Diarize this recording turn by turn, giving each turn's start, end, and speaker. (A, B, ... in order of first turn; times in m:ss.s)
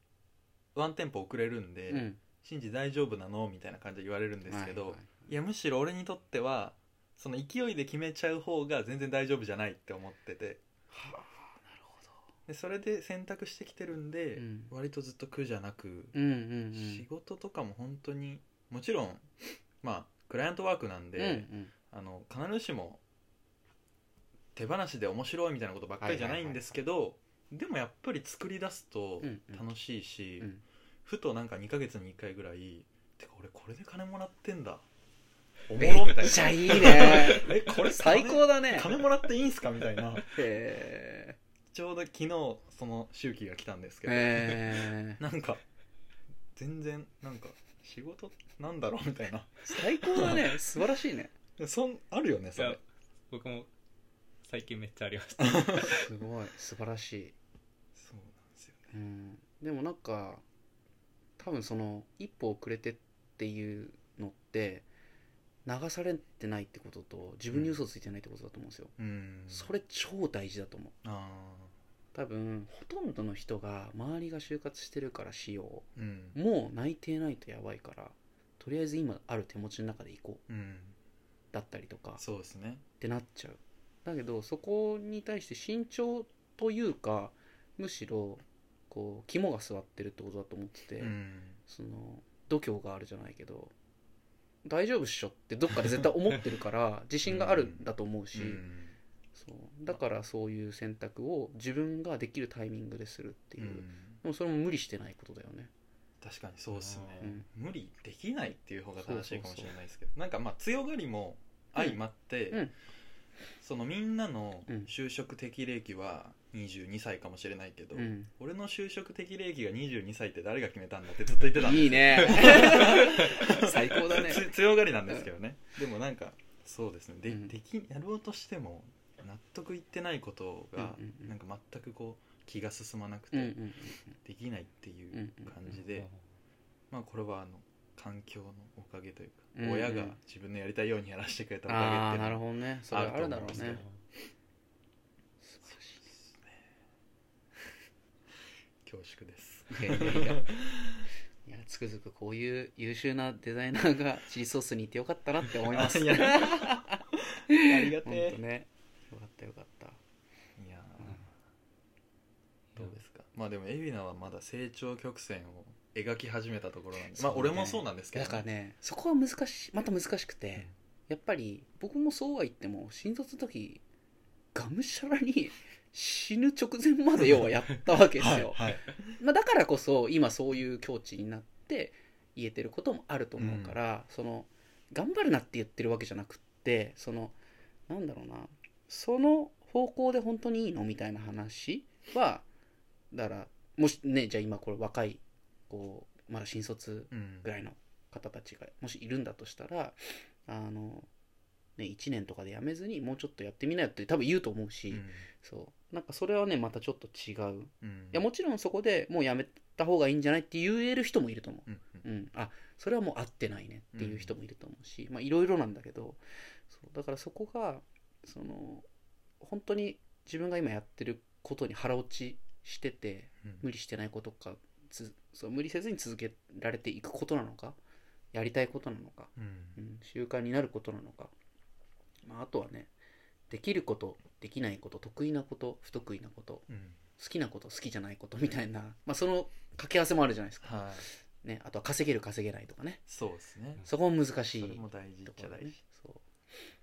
0:00.7-0:10.6 A
0:01.9-0:02.3 B
0:04.4-0:05.3 B
0:10.9-0:12.2 B
0:12.5-0:16.2 A
0:14.4-0:14.7 B
0:16.1-0:17.1 B
0:16.8-0:19.3 A
0:19.8-0:23.0 A
0:21.2-0:21.7 B
0:24.6-0:30.5 A
0:26.0-0:26.8 B
0:29.2-0:29.7 B
0:31.0-0:34.9 A
0:35.7-0:40.4 A
0:35.8-0:39.1 B
0:40.2-0:41.4 B
0:41.7-0:45.6 A
0:44.1-0:45.2 B
0:46.6-0:50.6 A
0:49.6-0:51.3 B
0:51.6-0:52.8 A
0:52.6-0:53.7 C
0:54.4-0:56.1 C
0:55.4-0:55.9 A
0:55.8-0:57.4 B
0:58.0-0:58.9 A
0:58.9-1:00.4 B
1:01.4-1:04.9 B
1:05.6-1:08.9 B
1:07.5-1:07.8 A
1:09.0-1:09.7 A
1:09.5-1:10.9 B
1:11.0-1:11.7 A
1:12.1-1:20.4 B
1:16.0-1:16.4 A
1:20.5-1:21.0 A
1:21.5-1:22.2 B
1:22.2-1:22.9 A
1:22.9-1:33.7 B
1:31.0-1:31.6 A
1:34.6-1:38.6 B
1:37.2-1:39.0 A
1:39.4-1:45.7 B
1:43.6-1:44.2 A
1:46.2-1:52.6 A
1:46.7-1:47.2 C
1:47.2-1:47.5 B
1:49.0-1:49.8 B
1:53.6-2:13.6 A
1:58.0-1:58.3 B
2:01.5-2:05.3 B
2:07.3-2:07.5 B
2:10.8-2:11.4 B
2:13.3-2:14.2 B
2:14.2-2:16.1 A
2:15.1-2:15.6 B
2:15.7-2:16.2 C
2:16.9-2:23.8 A
2:19.6-2:20.2 B
2:21.7-2:23.8 B
2:23.5-2:24.0 C
2:25.4-2:26.2 B
2:26.0-2:26.5 A
2:28.8-2:31.0 A
2:29.7-2:30.6 B
2:31.4-2:40.0 B
2:35.6-2:36.9 A
2:37.6-2:38.4 A
2:40.6-2:41.3 A
2:42.7-2:48.4 A
2:47.1-2:53.8 B
2:54.6-3:07.4 B
2:58.2-2:59.2 A
3:03.4-3:03.8 A
3:07.9-3:12.4 B
3:13.1-3:21.1 B
3:17.1-3:17.5 A
3:21.8-3:38.9 B
3:24.9-3:25.3 A
3:27.8-3:28.2 A
3:31.7-3:32.0 A
3:34.0-3:34.3 A
3:39.4-3:47.8 B
3:48.3-3:51.3 B
3:49.4-3:49.8 A
3:52.2-3:52.9 B
3:53.5-4:03.0 B
3:56.7-3:57.0 A
4:00.6-4:01.1 A
4:03.1-4:03.8 A
4:03.8-4:06.2 B
4:04.6-4:05.8 A